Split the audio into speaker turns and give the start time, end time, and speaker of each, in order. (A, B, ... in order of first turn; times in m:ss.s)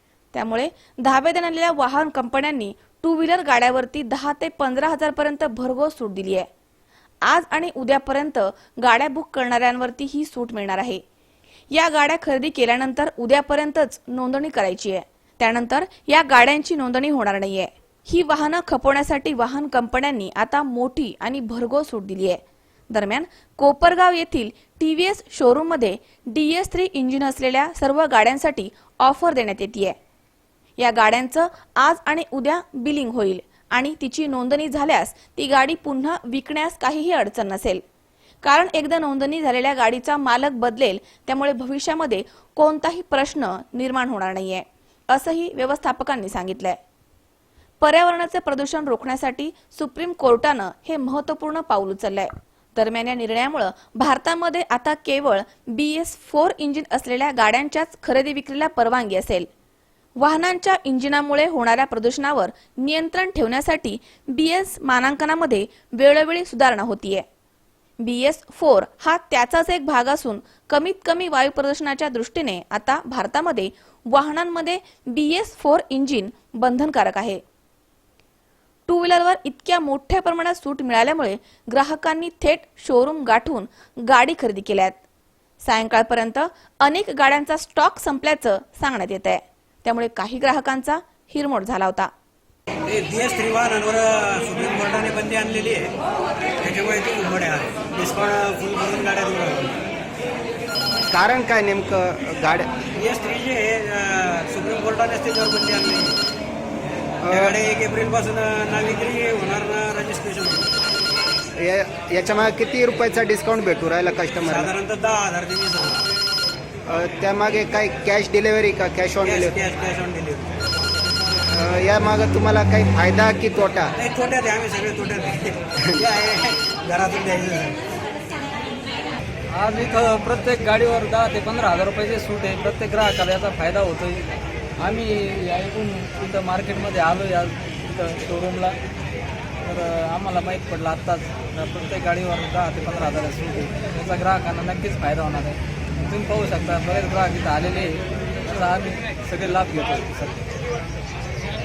0:00.3-0:06.5 A
0:07.3-0:11.0 A
0:11.7-0:30.0 A
0:30.8-0:37.8 A
0:38.4-0:46.8 A
0:47.8-0:59.5 A
1:00.2-1:07.2 A
1:08.0-1:17.4 A
1:18.9-1:25.0 A
1:25.6-1:32.1 A
1:32.9-1:35.9 B
1:36.6-1:39.8 B
1:41.1-1:42.7 C
1:43.0-1:46.1 B
1:47.2-1:47.6 C
1:47.3-1:50.7 B
1:51.6-1:54.7 C
1:54.5-1:56.0 B
1:56.9-1:59.6 C
1:59.2-2:00.5 B
2:01.5-2:03.9 C
2:04.0-2:07.8 B
2:09.5-2:18.8 D
2:19.6-2:30.4 D